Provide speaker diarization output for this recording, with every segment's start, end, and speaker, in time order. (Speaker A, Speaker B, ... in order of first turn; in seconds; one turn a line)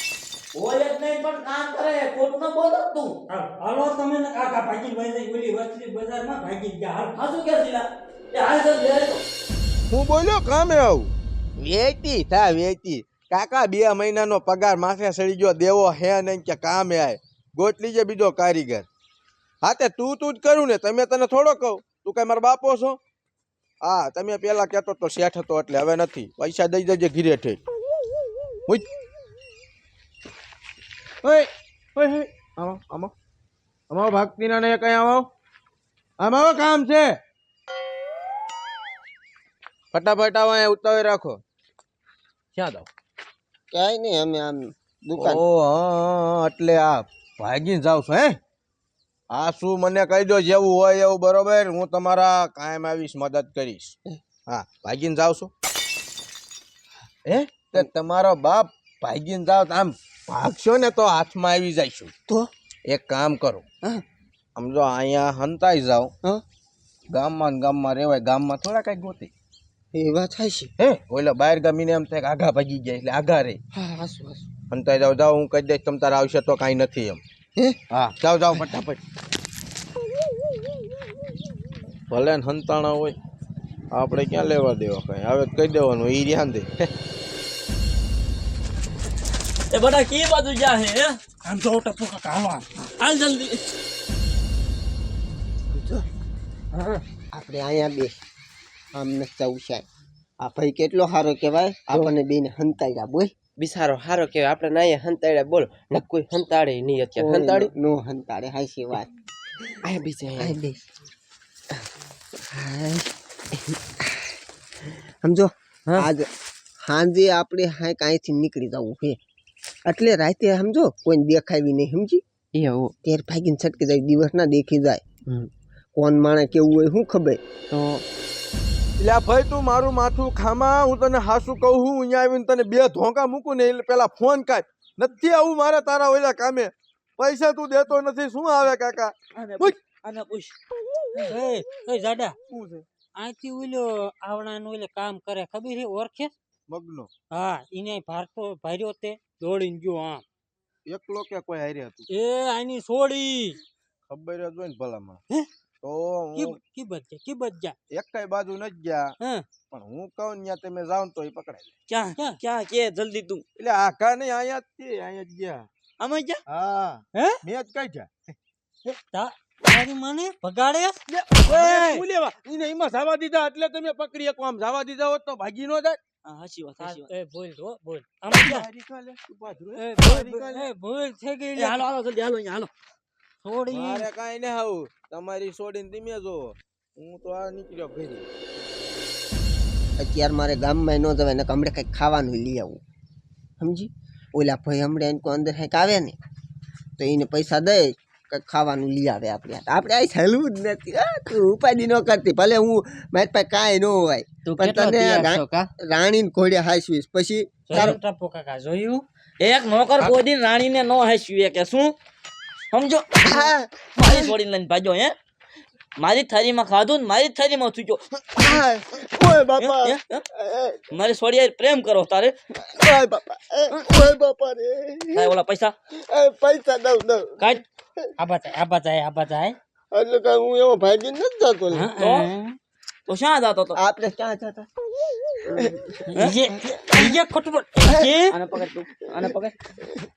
Speaker A: 0.5-3.2
Speaker B: 3.3-7.1
Speaker A: 7.1-9.2
Speaker C: 9.9-18.9
Speaker C: 19.6-23.0
Speaker C: 23.8-27.6
Speaker C: 31.2-33.1
Speaker C: 33.9-35.3
Speaker C: 36.2-37.2
Speaker C: 39.9-41.4
Speaker C: 42.5-42.9
Speaker D: 43.7-45.4
Speaker C: 45.2-48.4
Speaker C: 49.3-54.0
Speaker C: 54.5-55.5
Speaker C: 57.3-62.1
Speaker C: 62.9-63.6
Speaker C: 64.6-66.1
Speaker C: 67.1-69.3
Speaker D: 69.9-70.7
Speaker C: 70.8-73.6
Speaker D: 73.8-74.5
Speaker C: 74.7-77.2
Speaker C: 77.9-79.0
Speaker C: 82.1-83.2
Speaker C: 83.9-86.9
Speaker A: 89.7-91.2
Speaker B: 91.5-92.7
Speaker A: 92.8-93.6
Speaker D: 95.8-96.0
Speaker E: 96.7-97.0
Speaker D: 97.3-98.2
Speaker D: 98.9-99.8
Speaker D: 100.4-103.3
Speaker E: 103.6-107.7
Speaker D: 107.2-109.1
Speaker E: 109.8-110.6
Speaker D: 110.4-110.8
Speaker D: 112.5-113.1
Speaker D: 115.2-116.3
Speaker D: 116.8-119.2
Speaker D: 119.9-122.2
Speaker E: 122.5-122.9
Speaker D: 123.0-125.0
Speaker D: 126.0-127.4
Speaker E: 127.7-128.0
Speaker C: 129.0-139.8
Speaker A: 139.3-140.6
Speaker B: 141.2-142.4
Speaker C: 142.5-142.9
Speaker B: 143.2-146.3
Speaker C: 146.7-147.1
Speaker B: 147.3-150.2
Speaker C: 150.9-152.1
Speaker B: 152.1-153.6
Speaker C: 154.1-155.2
Speaker C: 155.8-156.6
Speaker B: 156.3-157.8
Speaker C: 157.9-159.2
Speaker B: 159.2-159.5
Speaker C: 159.7-161.7
Speaker A: 161.9-163.4
Speaker C: 163.6-165.7
Speaker A: 166.0-166.4
Speaker C: 166.5-168.3
Speaker B: 167.1-167.4
Speaker B: 169.1-172.1
Speaker C: 171.1-176.0
Speaker A: 176.2-177.1
Speaker B: 176.8-178.7
Speaker C: 178.3-180.7
Speaker B: 179.8-181.8
Speaker A: 181.6-182.7
Speaker B: 183.4-184.1
Speaker C: 183.7-188.3
Speaker D: 190.0-192.8
Speaker D: 193.6-196.2
Speaker D: 197.0-208.0
Speaker E: 204.5-205.7
Speaker B: 207.7-209.1
Speaker A: 209.4-211.9
Speaker A: 212.7-215.1
Speaker D: 213.3-214.3
Speaker A: 216.0-218.5
Speaker D: 218.4-220.9
Speaker A: 219.6-220.2
Speaker A: 220.9-222.3
Speaker D: 222.6-225.3
Speaker A: 225.1-225.7
Speaker D: 226.1-227.5
Speaker B: 228.2-229.6
Speaker D: 229.9-231.9
Speaker B: 231.7-232.6
Speaker A: 232.0-232.3
Speaker A: 233.1-233.8
Speaker D: 233.8-234.7
Speaker D: 235.5-235.8
Speaker B: 236.1-238.4
Speaker D: 236.6-237.2
Speaker D: 237.9-238.1
Speaker A: 238.3-239.6